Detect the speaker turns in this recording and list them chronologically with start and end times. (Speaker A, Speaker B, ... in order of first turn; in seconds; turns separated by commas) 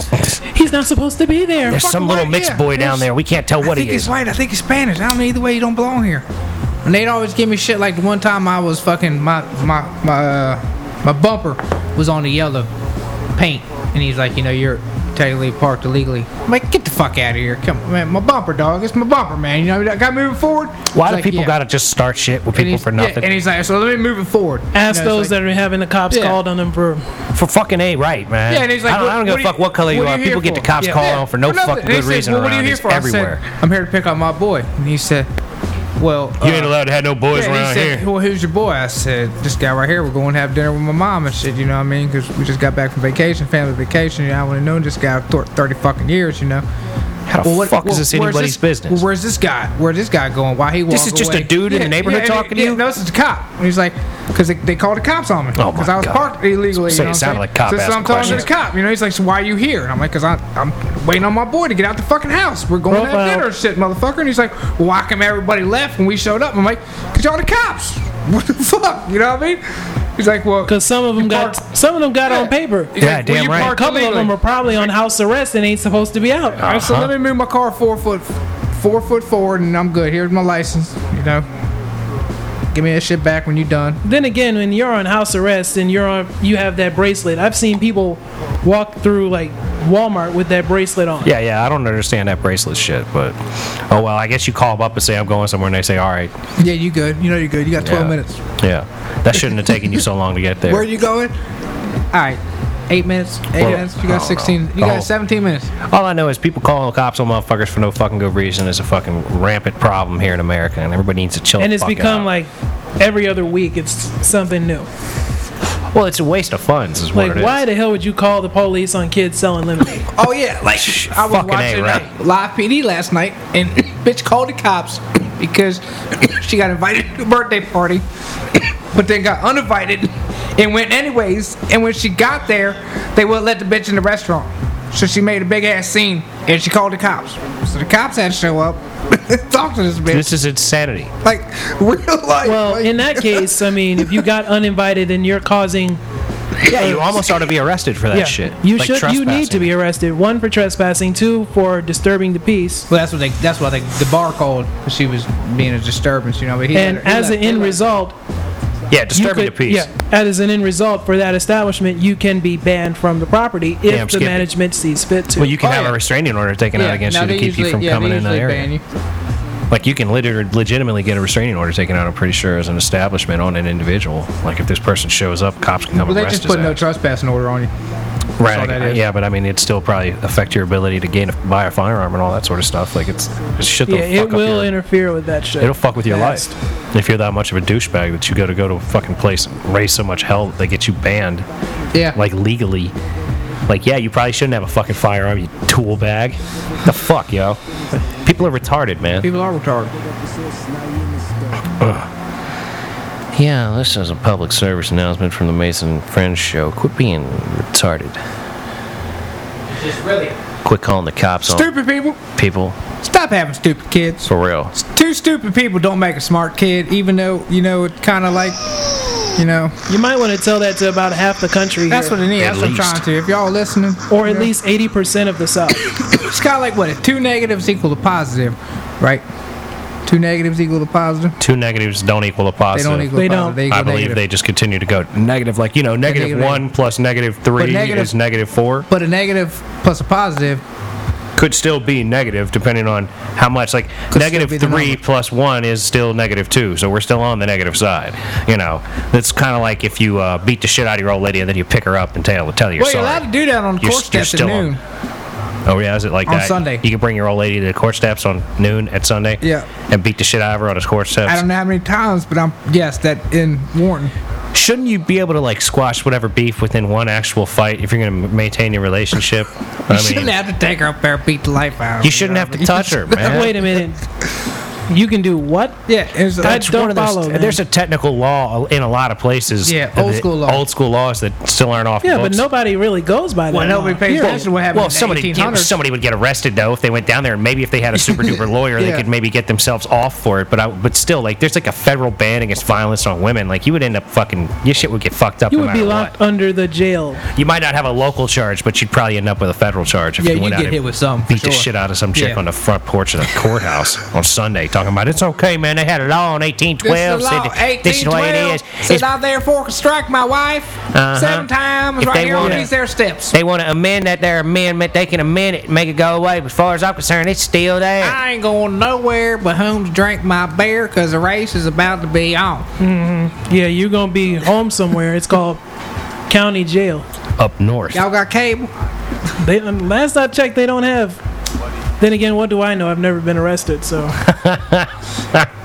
Speaker A: 0.5-1.8, Speaker B: 1.7-4.1, Speaker C: 1.7-6.2, Speaker C: 6.8-12.7, Speaker C: 13.3-21.6, Speaker B: 20.9-23.3, Speaker C: 22.6-25.4, Speaker A: 24.7-27.0, Speaker C: 26.1-26.4, Speaker B: 27.4-33.4, Speaker C: 28.5-35.3, Speaker A: 30.8-31.1, Speaker C: 36.0-36.7, Speaker B: 36.4-38.1, Speaker C: 37.3-46.6, Speaker B: 47.3-49.0, Speaker C: 47.4-69.6, Speaker B: 50.9-52.8, Speaker B: 55.6-58.5, Speaker A: 62.9-63.5, Speaker C: 70.2-71.6, Speaker A: 70.7-76.6, Speaker C: 72.3-74.4, Speaker B: 73.0-73.8, Speaker B: 76.6-77.1, Speaker C: 76.6-81.5, Speaker C: 82.7-84.0, Speaker A: 84.0-91.3, Speaker B: 91.2-96.3, Speaker C: 96.6-98.4, Speaker B: 97.8-100.9, Speaker C: 100.7-101.3, Speaker C: 102.1-105.7, Speaker B: 103.6-105.1, Speaker B: 105.8-112.3, Speaker A: 111.6-114.9, Speaker B: 115.9-117.6, Speaker A: 117.1-120.1, Speaker C: 120.1-140.3, Speaker B: 120.8-122.1, Speaker B: 140.1-141.1, Speaker C: 141.2-144.3, Speaker A: 142.4-146.0, Speaker B: 146.7-149.7, Speaker A: 146.7-147.3, Speaker A: 148.1-152.9, Speaker C: 152.9-157.9, Speaker A: 156.7-158.2, Speaker B: 158.9-159.9, Speaker A: 159.1-165.6, Speaker B: 163.9-164.5, Speaker B: 165.4-168.7, Speaker C: 165.6-166.0, Speaker C: 166.7-168.8, Speaker B: 169.7-176.8, Speaker C: 176.0-177.7, Speaker B: 178.4-184.7, Speaker C: 178.4-179.0, Speaker A: 183.9-186.4, Speaker B: 185.6-191.5, Speaker B: 192.2-192.9, Speaker B: 193.7-199.3, Speaker C: 199.2-199.9, Speaker B: 201.8-202.1, Speaker B: 203.3-208.2, Speaker B: 209.7-211.7, Speaker C: 211.5-212.2, Speaker B: 212.3-212.8, Speaker C: 213.0-218.6, Speaker B: 214.3-214.8, Speaker C: 219.3-219.8, Speaker A: 219.9-222.2, Speaker C: 221.9-224.5, Speaker B: 222.4-223.0, Speaker A: 224.1-225.8, Speaker C: 225.8-229.2, Speaker C: 230.1-231.4, Speaker B: 231.4-233.1, Speaker C: 232.7-234.2, Speaker A: 233.1-233.6, Speaker B: 233.7-238.9, Speaker C: 236.1-236.7, Speaker C: 237.6-238.1, Speaker C: 238.9-240.6, Speaker B: 241.4-253.2, Speaker C: 244.1-245.0, Speaker C: 252.8-254.8, Speaker B: 253.8-254.8, Speaker B: 255.7-261.4, Speaker C: 256.3-256.9, Speaker C: 259.4-259.7, Speaker C: 261.3-264.1, Speaker B: 264.6-270.4, Speaker C: 269.9-273.6, Speaker B: 272.0-273.6, Speaker A: 273.2-274.0, Speaker A: 274.9-275.8, Speaker C: 275.9-276.7, Speaker A: 276.4-277.6, Speaker B: 276.4-282.4, Speaker C: 279.6-280.6, Speaker A: 282.0-284.5, Speaker C: 283.5-285.8, Speaker B: 284.1-296.1, Speaker C: 288.1-289.1, Speaker A: 295.5-297.2, Speaker B: 297.4-309.1, Speaker C: 300.2-302.4, Speaker C: 306.8-313.4, Speaker B: 310.9-312.7, Speaker A: 312.4-312.7, Speaker B: 313.3-318.2, Speaker C: 318.0-322.7, Speaker A: 322.8-325.6, Speaker A: 326.3-327.1, Speaker B: 327.4-328.0, Speaker C: 327.9-328.7, Speaker A: 329.4-331.2, Speaker A: 332.0-334.2, Speaker B: 334.2-335.5